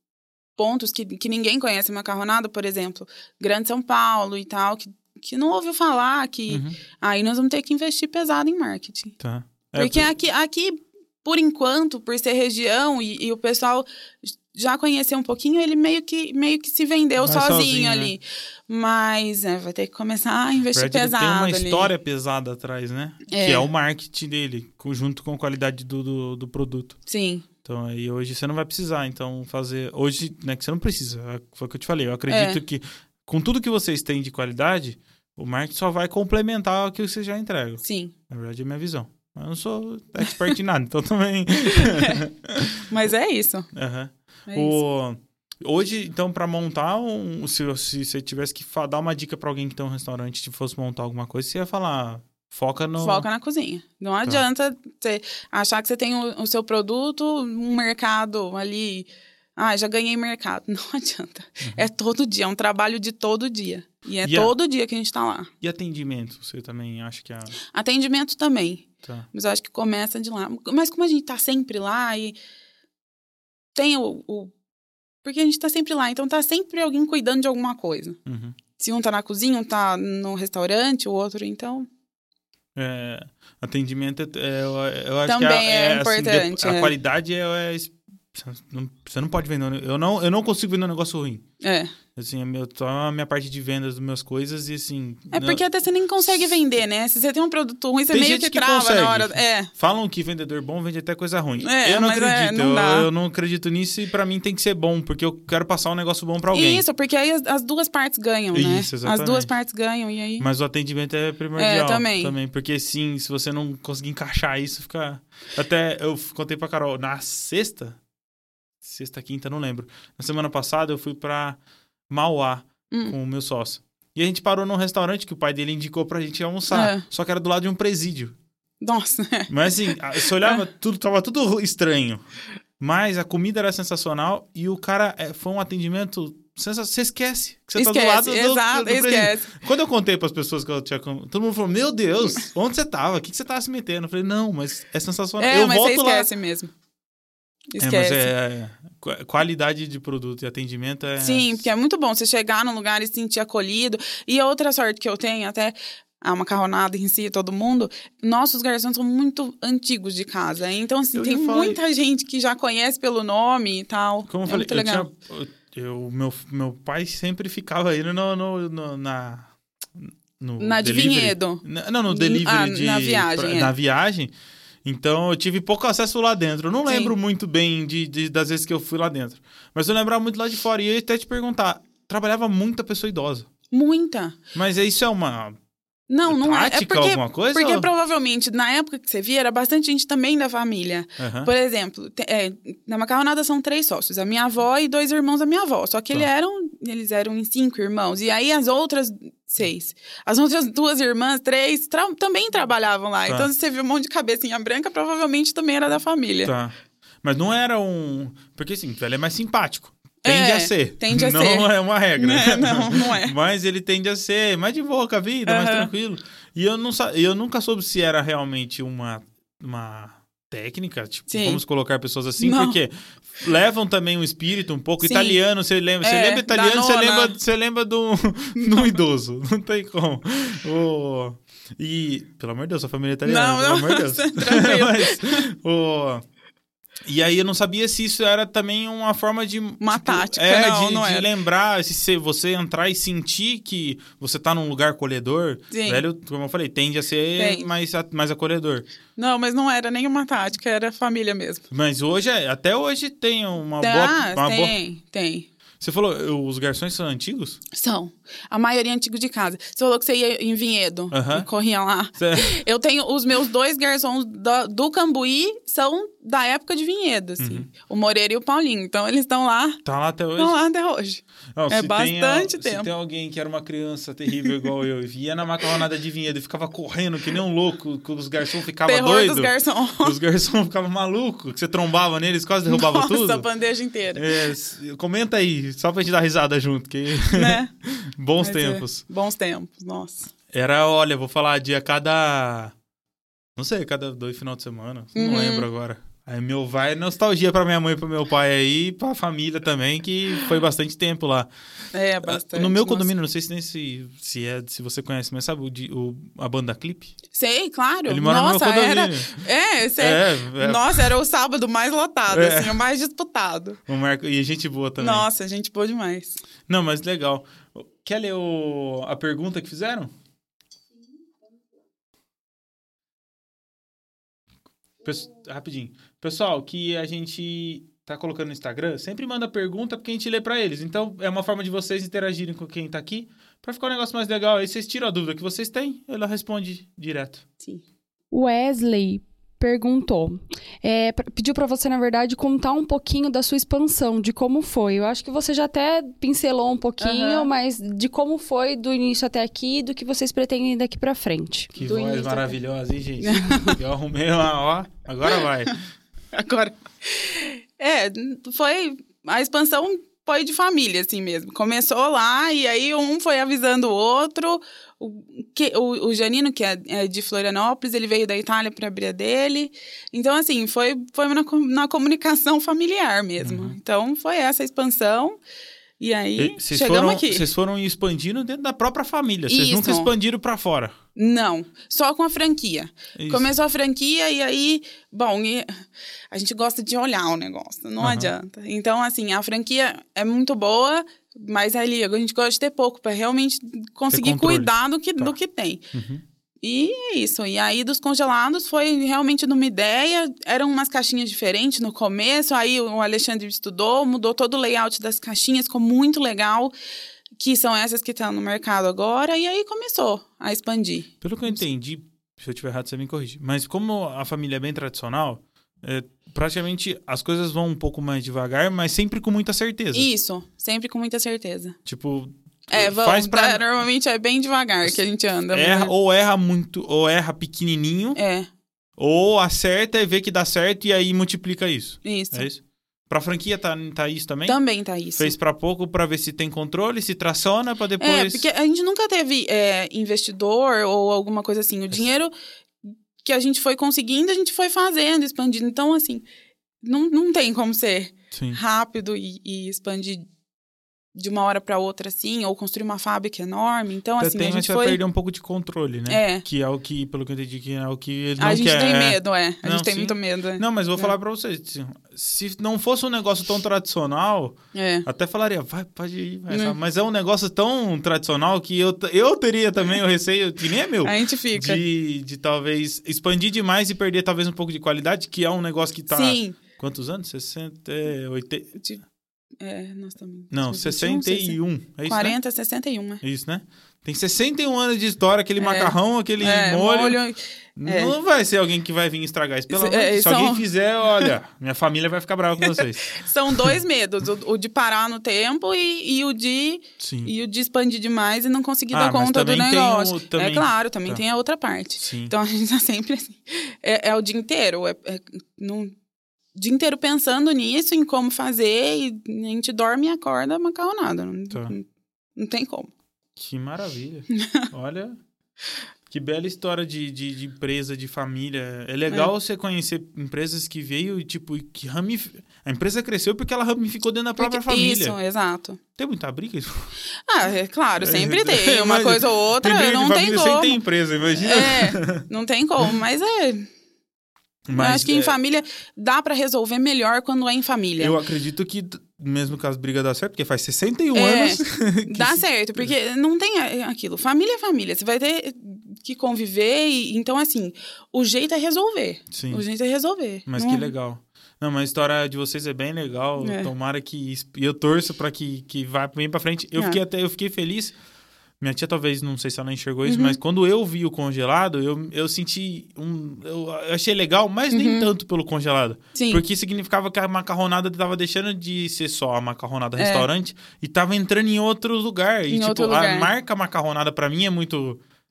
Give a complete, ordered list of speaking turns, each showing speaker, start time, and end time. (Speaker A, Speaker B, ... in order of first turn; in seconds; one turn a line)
Speaker A: 0.6-9.2
Speaker B: 6.5-6.8
Speaker B: 9.2-10.1
Speaker A: 9.8-21.9
Speaker B: 17.2-18.1
Speaker B: 20.7-27.0
Speaker A: 23.3-23.7
Speaker A: 27.1-27.4
Speaker B: 27.6-42.9
Speaker A: 32.3-32.6
Speaker A: 37.8-38.1
Speaker A: 41.7-42.2
Speaker A: 42.9-43.7
Speaker B: 43.7-53.2
Speaker A: 44.5-44.8
Speaker A: 53.0-65.5
Speaker B: 64.2-64.5
Speaker B: 65.6-67.6
Speaker A: 67.7-72.4
Speaker A: 73.7-74.5
Speaker A: 75.2-78.2
Speaker B: 78.2-78.5
Speaker A: 78.8-81.9
Speaker B: 82.8-91.4
Speaker A: 85.2-86.9
Speaker A: 91.6-91.9
Speaker B: 92.1-95.6
Speaker A: 95.3-99.7
Speaker B: 96.2-96.5
Speaker B: 98.1-106.8
Speaker A: 101.6-103.1
Speaker A: 106.5-110.4
Speaker B: 108.5-109.5
Speaker B: 110.4-118.0
Speaker A: 111.6-112.3
Speaker B: 118.8-121.6
Speaker B: 122.1-128.3
Speaker A: 126.7-127.0
Speaker A: 128.8-129.5
Speaker B: 129.5-132.2
Speaker B: 132.8-146.3
Speaker A: 137.8-139.5
Speaker A: 145.4-146.7
Speaker A: 147.7-148.3
Speaker B: 147.8-151.7
Speaker A: 151.2-165.1
Speaker B: 161.1-161.8
Speaker B: 164.3-174.3
Speaker A: 170.6-173.7
Speaker B: 174.8-183.5
Speaker A: 176.8-177.1
Speaker A: 183.7-184.4
Speaker B: 184.5-185.6
Speaker A: 186.1-206.5
Speaker B: 186.3-187.9
Speaker B: 191.2-191.5
Speaker B: 206.4-236.2
Speaker A: 210.2-213.3
Speaker A: 215.4-215.9
Speaker A: 221.3-221.6
Speaker A: 222.4-222.8
Speaker A: 225.0-225.4
Speaker A: 226.0-227.3
Speaker A: 228.6-229.0
Speaker A: 233.2-235.5
Speaker B: 237.1-248.9
Speaker A: 239.8-241.3
Speaker A: 245.7-246.0
Speaker A: 247.4-247.7
Speaker A: 249.2-251.6
Speaker B: 251.7-254.8
Speaker A: 253.8-255.5
Speaker B: 255.8-257.6
Speaker A: 257.7-269.8
Speaker B: 261.1-261.5
Speaker B: 262.2-262.6
Speaker B: 267.4-267.7
Speaker B: 269.8-270.6
Speaker A: 270.4-272.9
Speaker B: 271.6-283.5
Speaker A: 274.4-274.7
Speaker A: 278.8-280.2
Speaker A: 282.6-284.5
Speaker B: 284.1-289.0
Speaker A: 287.3-287.7
Speaker A: 288.4-290.3
Speaker B: 290.5-292.7
Speaker B: 293.6-301.5
Speaker A: 295.1-295.7
Speaker A: 301.9-303.1
Speaker B: 302.2-307.1
Speaker A: 307.3-313.8
Speaker B: 308.1-309.4
Speaker B: 310.0-311.1
Speaker B: 312.3-312.8
Speaker B: 313.9-315.3
Speaker A: 315.0-316.4
Speaker B: 316.7-320.1
Speaker B: 325.0-337.4
Speaker C: 338.3-351.8
Speaker A: 347.0-347.5
Speaker B: 351.7-355.8
Speaker A: 351.8-352.5
Speaker A: 353.2-353.8
Speaker A: 356.3-375.4
Speaker B: 373.4-373.8
Speaker A: 376.0-377.4
Speaker B: 376.4-380.9
Speaker A: 379.5-380.1
Speaker A: 381.1-395.9
Speaker B: 383.1-383.5
Speaker B: 388.0-388.3
Speaker B: 394.1-395.3
Speaker B: 395.9-396.2
Speaker A: 396.6-406.7
Speaker A: 407.4-411.1
Speaker B: 411.2-420.1
Speaker A: 419.9-421.8
Speaker B: 421.9-423.6
Speaker A: 422.7-425.9
Speaker B: 425.5-428.2
Speaker A: 428.1-428.5
Speaker B: 429.0-434.6
Speaker A: 432.0-432.5
Speaker A: 434.4-435.3
Speaker B: 435.1-438.4
Speaker A: 438.0-442.3
Speaker A: 443.2-446.2
Speaker A: 446.8-450.3
Speaker B: 448.3-448.6
Speaker A: 451.1-455.0
Speaker B: 454.2-478.7
Speaker A: 456.1-456.4
Speaker A: 458.4-461.1
Speaker A: 464.7-465.1
Speaker A: 466.5-466.8
Speaker A: 471.0-471.8
Speaker A: 476.1-476.6
Speaker A: 479.6-483.2
Speaker B: 480.5-482.4
Speaker B: 483.2-487.2
Speaker A: 485.6-488.1
Speaker B: 487.8-493.7
Speaker A: 489.7-490.6
Speaker A: 492.6-505.9
Speaker B: 497.0-497.3
Speaker B: 498.9-501.2
Speaker B: 502.0-502.3
Speaker A: 506.5-511.8
Speaker A: 512.4-512.9
Speaker B: 513.4-515.2
Speaker A: 514.4-514.6
Speaker B: 516.1-525.2
Speaker A: 524.4-525.8
Speaker B: 526.0-526.9
Speaker A: 527.2-530.8
Speaker B: 528.0-532.3
Speaker A: 531.3-533.7
Speaker B: 534.6-535.4
Speaker A: 534.7-538.1
Speaker B: 538.0-542.9
Speaker A: 541.1-550.9
Speaker B: 549.3-549.6
Speaker B: 550.5-557.9
Speaker A: 553.4-553.7
Speaker B: 558.6-575.0
Speaker A: 560.0-560.4
Speaker A: 564.7-565.1
Speaker A: 566.1-566.4
Speaker A: 570.0-570.3
Speaker A: 572.5-573.3